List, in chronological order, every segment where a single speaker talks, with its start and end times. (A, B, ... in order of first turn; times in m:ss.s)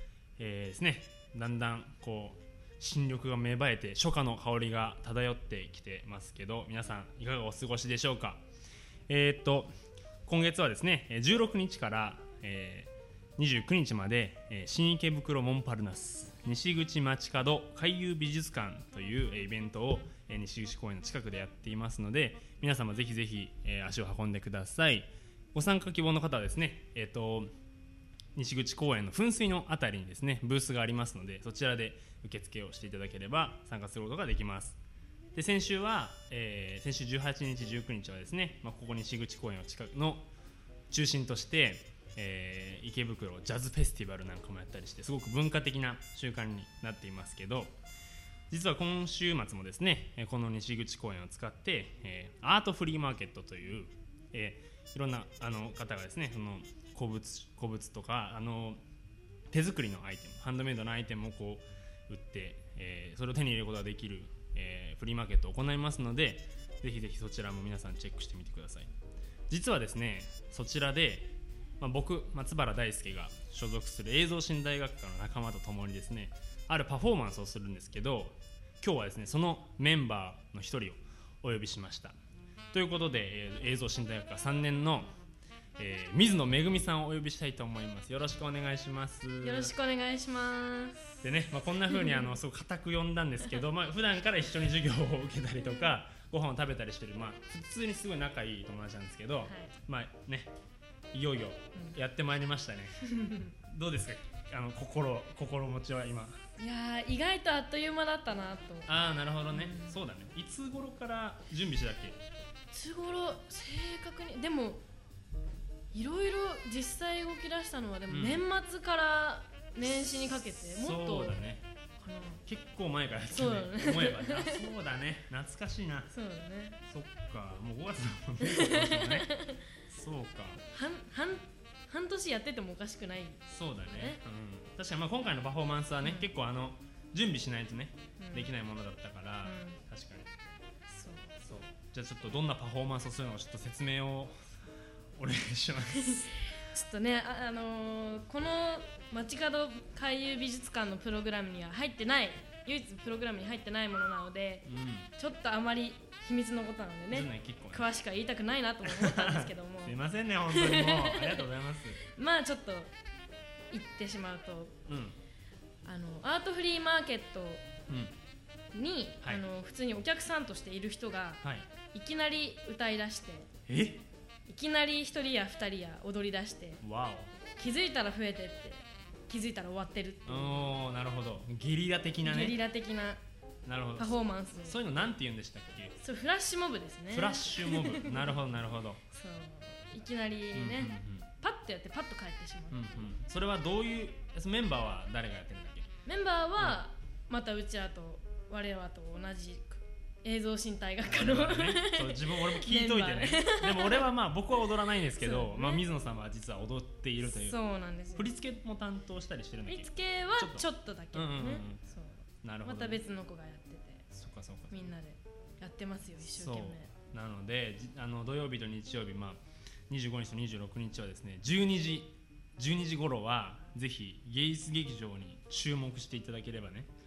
0:00.4-0:08.4 A
0:09.1-0:09.7 A
0:10.2-0:27.5 A
0:28.3-0:34.8 A
0:35.3-0:40.3 A
0:40.9-0:47.7 A
0:48.5-0:58.8 A
0:59.5-1:08.9 A
1:09.5-1:22.2 A
1:22.7-1:25.1 A
1:25.8-1:29.7 A
1:29.4-1:31.2 B
1:31.2-1:40.5 A
1:31.8-1:32.3 B
1:39.4-1:39.7 B
1:41.1-1:43.0 A
1:43.0-1:43.5 B
1:43.7-1:46.4 A
1:46.6-1:48.9 B
1:48.8-1:52.2 A
1:49.5-1:50.0 B
1:52.7-1:54.8 B
1:55.9-2:01.4 B
1:58.1-1:58.4 A
1:59.8-2:01.6 A
2:02.0-2:02.4 B
2:02.4-2:06.1 A
2:03.3-2:04.7 B
2:06.1-2:06.8 B
2:06.8-2:09.3 A
2:08.4-2:09.6 B
2:09.9-2:10.6 A
2:10.7-2:14.2 B
2:13.5-2:20.3 A
2:16.0-2:16.3 B
2:18.2-2:18.5 B
2:19.4-2:19.8 B
2:20.9-2:21.4 B
2:21.4-2:24.5 A
2:25.2-2:26.4 A
2:26.0-2:41.5 B
2:34.6-2:35.1 A
2:37.1-2:37.9 A
2:38.8-2:42.0 A
2:42.0-2:42.9 B
2:43.7-2:44.7 B
2:44.9-2:45.2 A
2:45.8-2:47.6 B
2:47.9-2:48.1 A
2:48.7-2:51.4 B
2:51.4-2:51.7 A
2:51.9-2:53.5 B
2:53.7-2:54.0 A
2:54.5-2:56.8 B
2:56.8-2:57.3 A
2:57.6-3:00.8 B
3:00.2-3:02.6 A
3:02.2-3:03.2 B
3:03.6-3:05.9 A
3:04.0-3:04.8 B
3:06.0-3:08.4 B
3:07.1-3:09.0 A
3:09.1-3:13.1 B
3:10.5-3:11.3 A
3:12.7-3:16.0 A
3:16.0-3:24.1 B
3:16.6-3:16.8 A
3:21.0-3:27.6 A
3:25.0-3:25.8 B
3:27.2-3:28.3 B
3:28.2-3:31.8 A
3:29.7-3:34.0 B
3:32.4-3:33.0 A
3:34.1-3:34.9 A
3:34.7-3:36.9 B
3:36.2-3:46.9 A